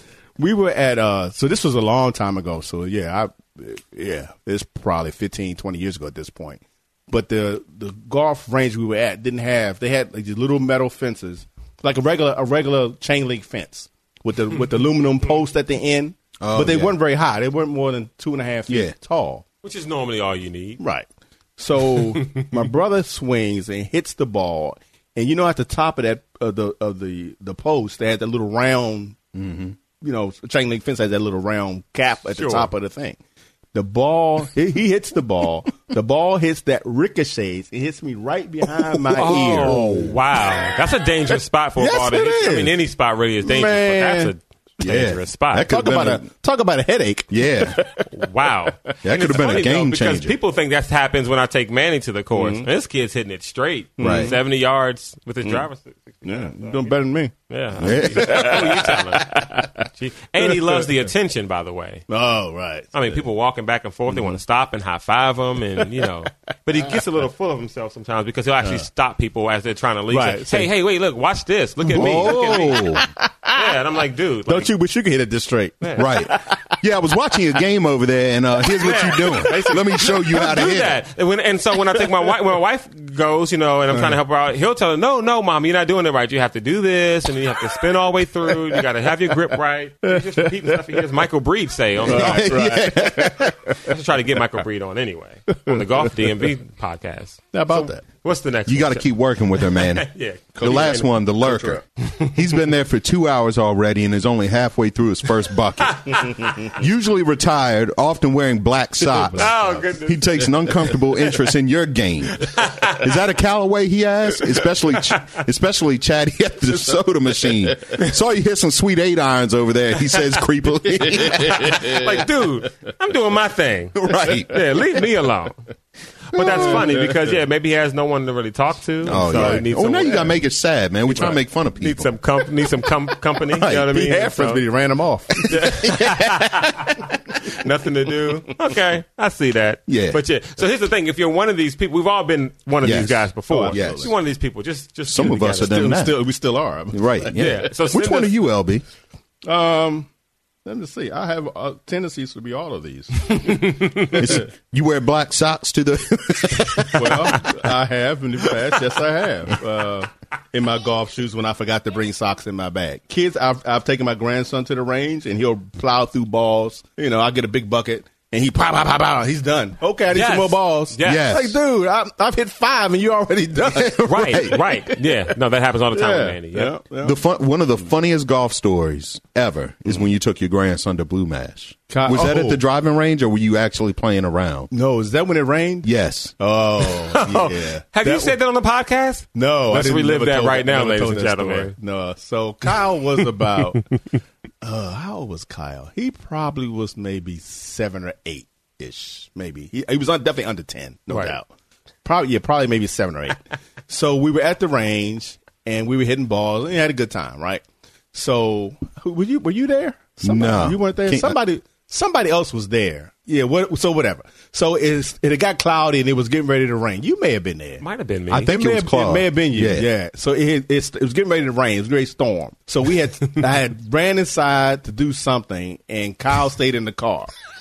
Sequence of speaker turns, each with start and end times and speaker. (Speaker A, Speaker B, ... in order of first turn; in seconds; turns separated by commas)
Speaker A: 0.4-19.4, Speaker B: 16.4-16.9, Speaker B: 18.7-18.9, Speaker C: 19.6-20.8, Speaker A: 20.8-29.3, Speaker C: 21.9-22.5, Speaker B: 29.3-29.7, Speaker A: 30.0-33.2, Speaker C: 32.3-32.7, Speaker A: 33.7-40.8, Speaker C: 39.1-45.7, Speaker B: 39.3-40.2, Speaker A: 41.8-42.7, Speaker A: 43.4-44.3, Speaker B: 44.8-46.2, Speaker A: 45.7-48.1, Speaker B: 47.3-47.8, Speaker C: 48.1-56.9, Speaker B: 49.0-50.3, Speaker A: 52.3-52.7, Speaker A: 54.0-54.4, Speaker B: 54.0-54.4, Speaker A: 56.2-59.8, Speaker C: 57.5-62.0, Speaker B: 57.8-58.8, Speaker A: 60.5-60.9, Speaker A: 62.1-63.1, Speaker C: 62.9-74.7, Speaker A: 64.1-64.4, Speaker A: 70.1-70.7, Speaker A: 71.8-73.7, Speaker B: 71.9-73.0, Speaker A: 74.5-76.8, Speaker C: 75.8-76.1, Speaker B: 76.0-81.0, Speaker C: 78.8-92.5, Speaker A: 79.1-80.3, Speaker A: 82.0-82.3, Speaker A: 90.0-91.0, Speaker B: 92.0-93.6, Speaker A: 92.0-93.8, Speaker C: 93.8-101.1, Speaker A: 95.7-96.4, Speaker A: 97.5-98.0, Speaker B: 98.7-100.1, Speaker A: 100.5-101.8, Speaker B: 100.6-121.9, Speaker C: 106.0-106.7, Speaker A: 109.0-109.8, Speaker C: 109.3-110.9, Speaker C: 112.4-113.1, Speaker C: 121.2-125.6, Speaker B: 123.9-124.5, Speaker C: 126.3-130.3, Speaker B: 126.3-126.9, Speaker A: 126.5-127.1, Speaker B: 129.0-132.1, Speaker A: 129.1-130.1, Speaker C: 131.1-134.6, Speaker B: 133.5-133.9, Speaker A: 133.9-136.8, Speaker C: 135.4-145.9, Speaker B: 135.5-136.1, Speaker B: 139.9-140.2, Speaker B: 142.8-144.1, Speaker A: 143.5-144.1, Speaker B: 145.1-146.1, Speaker A: 145.3-147.7, Speaker B: 146.9-148.8, Speaker C: 147.3-148.3, Speaker A: 149.4-150.1, Speaker A: 150.6-154.4, Speaker C: 153.4-154.2, Speaker B: 154.1-157.4, Speaker C: 156.7-157.0, Speaker A: 156.9-175.0, Speaker C: 170.1-171.3, Speaker B: 171.0-171.6, Speaker C: 174.1-176.7, Speaker B: 174.1-174.6, Speaker A: 175.9-177.2, Speaker B: 177.0-184.7, Speaker A: 181.9-182.6, Speaker A: 184.7-188.3, Speaker B: 185.8-186.3, Speaker C: 186.8-191.7, Speaker A: 189.3-193.9, Speaker A: 194.6-201.5, Speaker C: 201.1-201.3, Speaker A: 202.0-207.6, Speaker A: 208.1-217.8, Speaker B: 210.2-211.3, Speaker C: 217.8-218.5, Speaker B: 218.3-219.9, Speaker A: 218.4-227.3